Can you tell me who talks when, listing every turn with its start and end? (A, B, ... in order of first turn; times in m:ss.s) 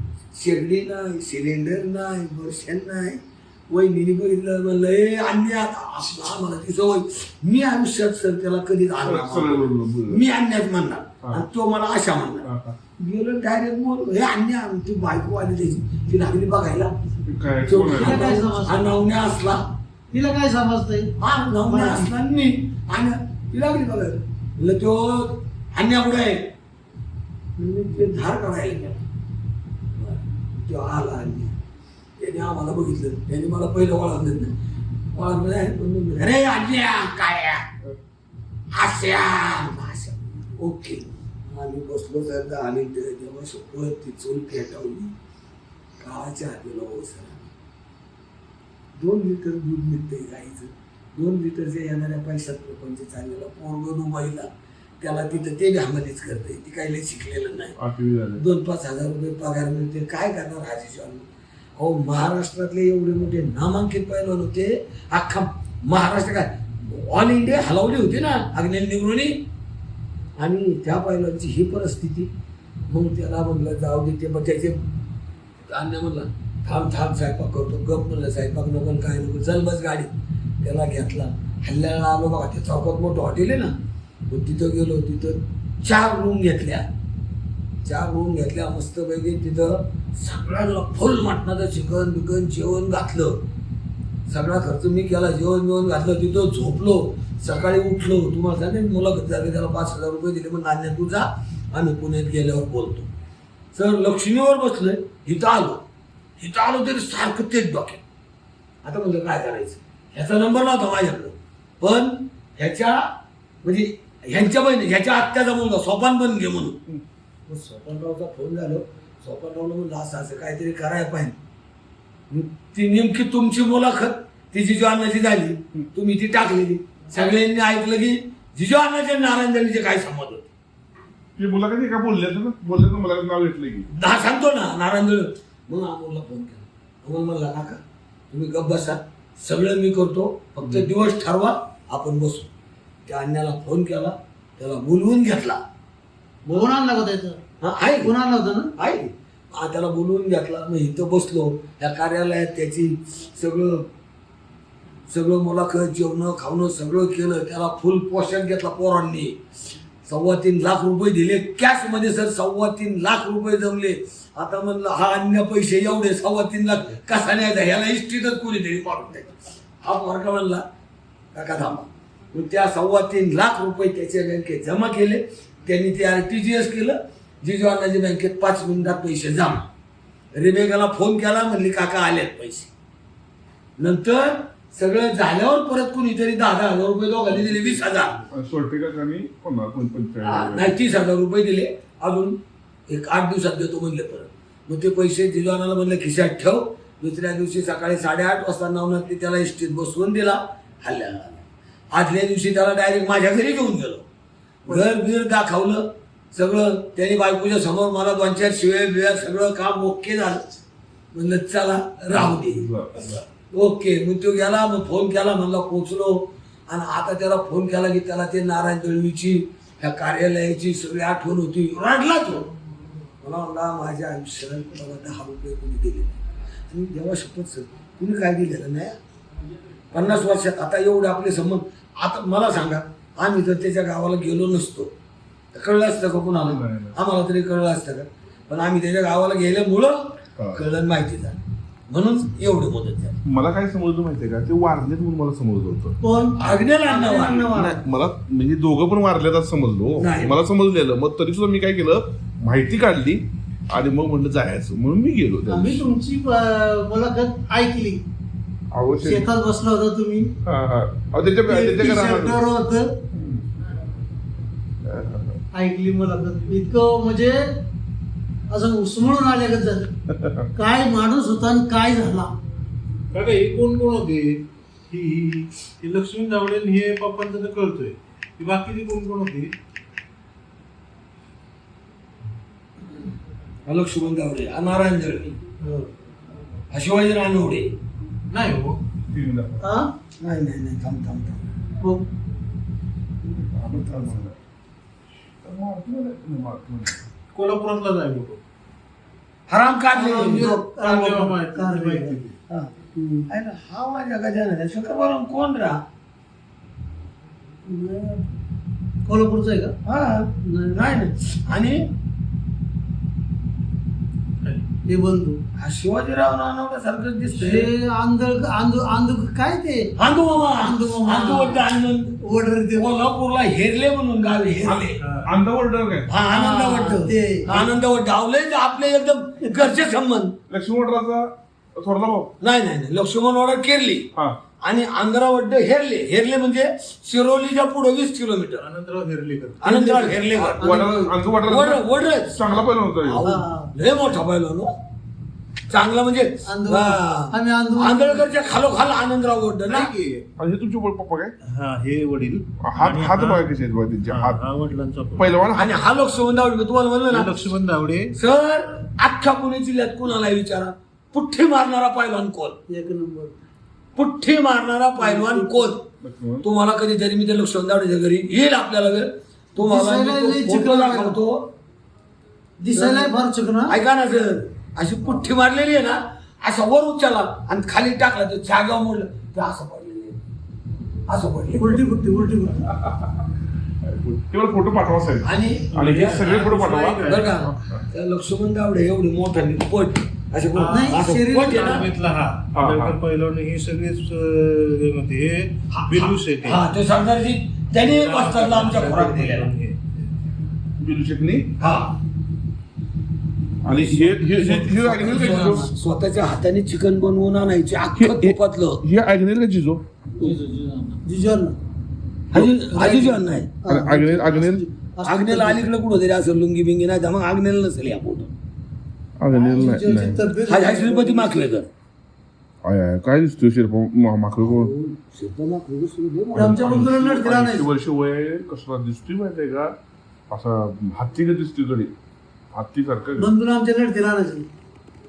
0:00.4-0:16.9 A
0:09.0-0:10.2 B
0:12.4-0:12.8 B
0:17.3-0:18.4 B
0:17.7-0:19.6 A
0:17.9-0:18.9 C
0:20.1-0:21.1 C
0:21.2-0:26.5 A
0:21.7-0:22.1 C
0:27.6-0:29.0 A
0:30.0-0:31.5 A
0:32.2-0:34.5 A
0:35.1-0:37.7 A
0:38.8-0:45.1 A
0:46.0-0:47.5 A
0:49.0-0:54.5 A
0:55.0-0:57.8 A
0:57.8-0:58.4 B
0:58.4-1:01.2 A
1:01.8-1:09.4 A
1:10.4-1:12.3 A
1:12.9-1:14.8 A
1:15.7-1:20.1 A
1:20.6-1:23.7 A
1:24.3-1:26.9 A
1:27.8-1:33.4 A
1:34.3-1:43.1 A
1:43.8-1:45.8 A
1:46.4-1:48.0 A
1:48.8-1:53.0 A
1:53.6-1:56.8 A
1:57.5-2:01.4 A
2:02.3-2:10.5 A
2:11.4-2:13.9 B
2:13.9-2:17.8 A
2:18.3-2:22.5 A
2:23.1-2:25.6 A
2:26.5-2:27.4 C
2:27.6-2:28.1 A
2:28.0-2:28.7 C
2:28.8-2:33.9 A
2:35.1-2:39.4 A
2:40.0-2:50.6 A
2:51.3-2:59.7 A
3:00.3-3:02.7 A
3:03.8-3:08.2 A
3:08.3-3:10.8 B
3:10.2-3:12.4 A
3:12.9-3:24.1 A
3:24.7-3:30.4 A
3:31.1-3:32.6 A
3:32.1-3:33.2 B
3:33.5-3:42.5 A
3:43.2-3:46.2 A
3:46.7-3:49.0 A
3:49.9-3:54.9 A
3:55.5-4:01.4 A
3:56.4-3:57.0 B
4:00.4-4:00.6 B
4:01.9-4:03.2 A
4:03.3-4:06.0 B
4:06.0-4:07.8 C
4:06.4-4:07.6 A
4:07.5-4:15.8 B
4:10.0-4:10.4 A
4:15.5-4:18.0 C
4:18.7-4:19.3 B
4:19.0-4:20.3 C
4:20.4-4:22.4 B
4:21.5-4:22.9 C
4:23.1-4:23.4 B
4:24.8-4:25.4 B
4:25.5-4:27.5 C
4:28.5-4:29.9 C
4:30.2-4:30.4 B
4:30.5-4:32.3 C
4:33.1-4:39.5 D
4:43.7-4:45.4 A
4:45.6-4:45.9 C
4:46.7-4:47.7 A
4:48.3-4:48.8 D
4:49.1-4:49.7 B
4:49.6-4:49.9 C
4:50.2-4:51.5 A
4:51.8-4:52.1 C
4:53.3-4:54.4 B
4:53.7-4:54.1 A
4:55.4-4:57.0 B
4:57.3-4:58.4 D
4:59.5-5:00.6 A
4:59.9-5:02.2 C
5:00.1-5:02.3 D
5:03.0-5:03.3 C
5:03.3-5:05.8 A
5:07.7-5:08.2 C
5:09.0-5:09.8 C
5:09.8-5:11.8 A
5:10.4-5:10.9 C
5:14.8-5:15.4 C
5:15.6-5:17.7 A
5:17.3-5:21.6 C
5:20.0-5:22.2 A
5:22.2-5:22.9 C
5:22.8-5:25.0 A
5:24.6-5:26.1 B
5:26.1-5:30.3 A
5:26.3-5:27.6 C
5:29.4-5:29.7 C
5:30.5-5:32.3 B
5:32.4-5:34.1 A
5:34.6-5:38.6 A
5:38.6-5:39.6 D
5:39.6-5:40.8 A
5:39.6-5:41.1 C
5:40.6-5:43.2 B
5:41.4-5:44.7 A
5:43.2-5:43.7 C
5:45.7-5:49.9 A
5:46.5-5:48.3 C
5:49.7-5:50.2 D
5:50.4-5:51.4 B
5:51.5-5:53.5 D
5:52.6-5:54.4 B
5:54.1-5:55.4 D
5:55.2-5:55.8 B
5:55.6-5:57.5 A
5:57.1-5:58.1 D
5:58.2-6:02.6 A
6:02.7-6:03.4 C
6:04.0-6:05.8 A
6:05.0-6:05.7 C
6:06.0-6:06.5 B
6:06.4-6:11.5 A
6:09.6-6:11.2 C
6:12.6-6:13.7 C
6:12.7-6:13.1 A
6:13.7-6:20.2 A
6:21.1-6:21.8 A
6:21.5-6:22.7 C
6:22.7-6:23.2 B
6:23.8-6:27.8 B
6:25.2-6:31.9 A
6:25.8-6:27.5 D
6:30.6-6:36.6 D
6:30.7-6:31.6 C
6:32.5-6:33.0 B
6:35.7-6:39.5 A
6:37.8-6:40.2 D
6:40.8-6:41.5 B
6:41.6-6:42.0 A
6:43.6-6:45.7 B
6:43.7-6:48.8 A
6:45.1-6:45.6 C
6:48.0-6:49.8 B
6:50.2-6:51.0 A
6:51.0-6:51.6 C
6:52.3-6:53.5 A
6:52.7-6:55.7 C
6:53.7-6:54.7 B
6:55.0-6:58.3 A
6:59.2-7:00.2 B
6:59.3-7:01.3 C
7:00.5-7:01.7 A
7:02.6-7:04.7 B
7:04.4-7:06.9 A
7:06.3-7:09.7 B
7:06.4-7:07.7 C
7:10.3-7:11.9 B
7:12.6-7:13.3 B
7:13.2-7:14.5 C